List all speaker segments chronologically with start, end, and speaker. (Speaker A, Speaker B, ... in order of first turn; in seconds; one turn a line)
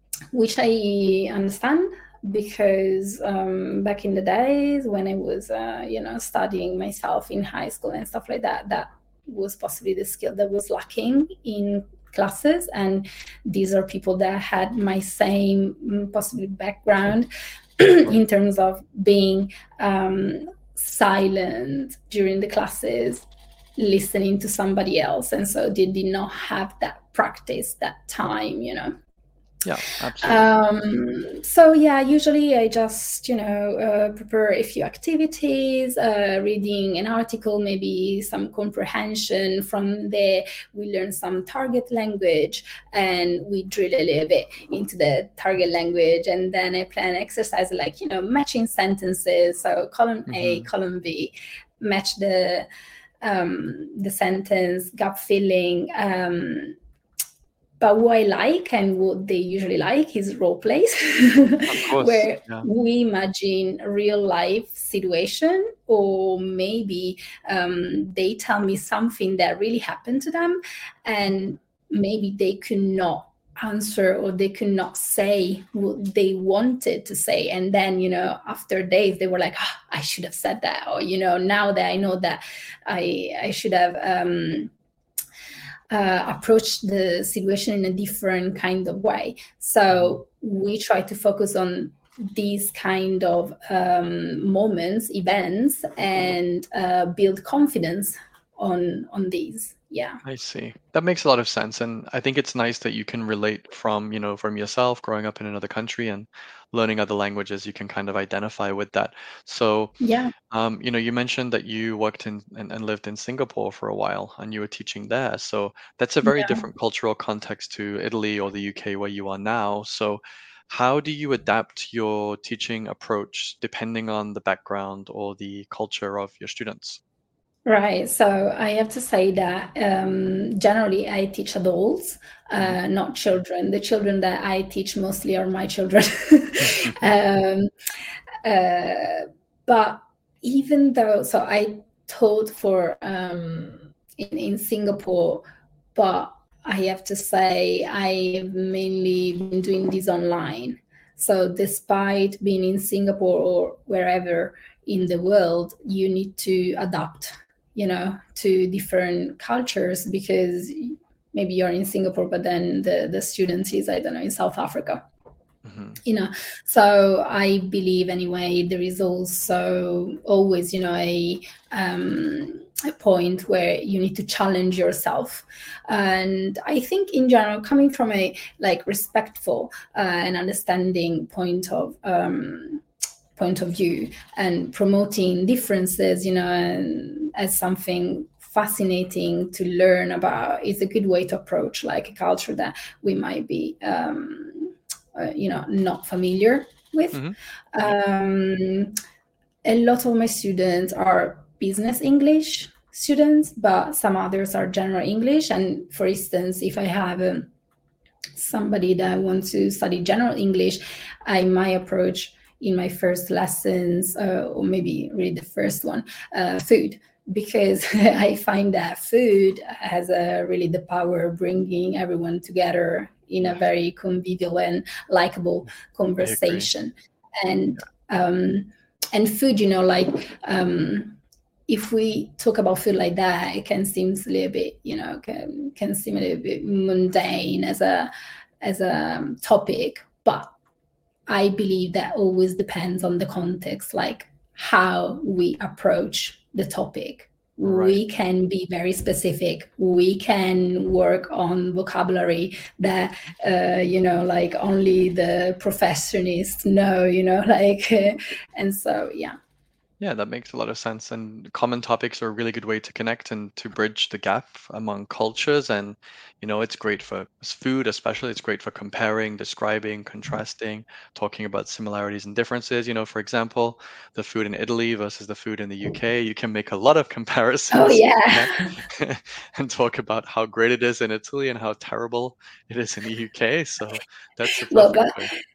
Speaker A: 0.3-23.2
Speaker A: 23.8-29.0
Speaker B: 29.6-30.5
Speaker A: 30.2-52.7
Speaker B: 50.3-50.7
Speaker A: 53.2-56.8
Speaker A: 57.8-84.7
Speaker B: 61.7-62.6
Speaker A: 85.9-100.2
Speaker B: 89.9-90.2
Speaker B: 100.2-109.9
Speaker A: 110.0-110.3
Speaker B: 110.5-127.0
Speaker A: 116.2-116.6
Speaker A: 127.7-137.7
Speaker A: 138.4-165.0
Speaker B: 165.7-166.0
Speaker A: 166.1-182.8
Speaker A: 183.4-197.2
Speaker A: 197.7-198.9
Speaker A: 199.6-207.5
Speaker A: 208.4-231.2
Speaker B: 226.2-226.7
Speaker A: 231.7-238.1
Speaker A: 238.6-240.5
Speaker A: 241.3-259.4
Speaker B: 247.6-248.0
Speaker B: 260.0-285.3
Speaker A: 277.7-278.8
Speaker A: 284.7-285.2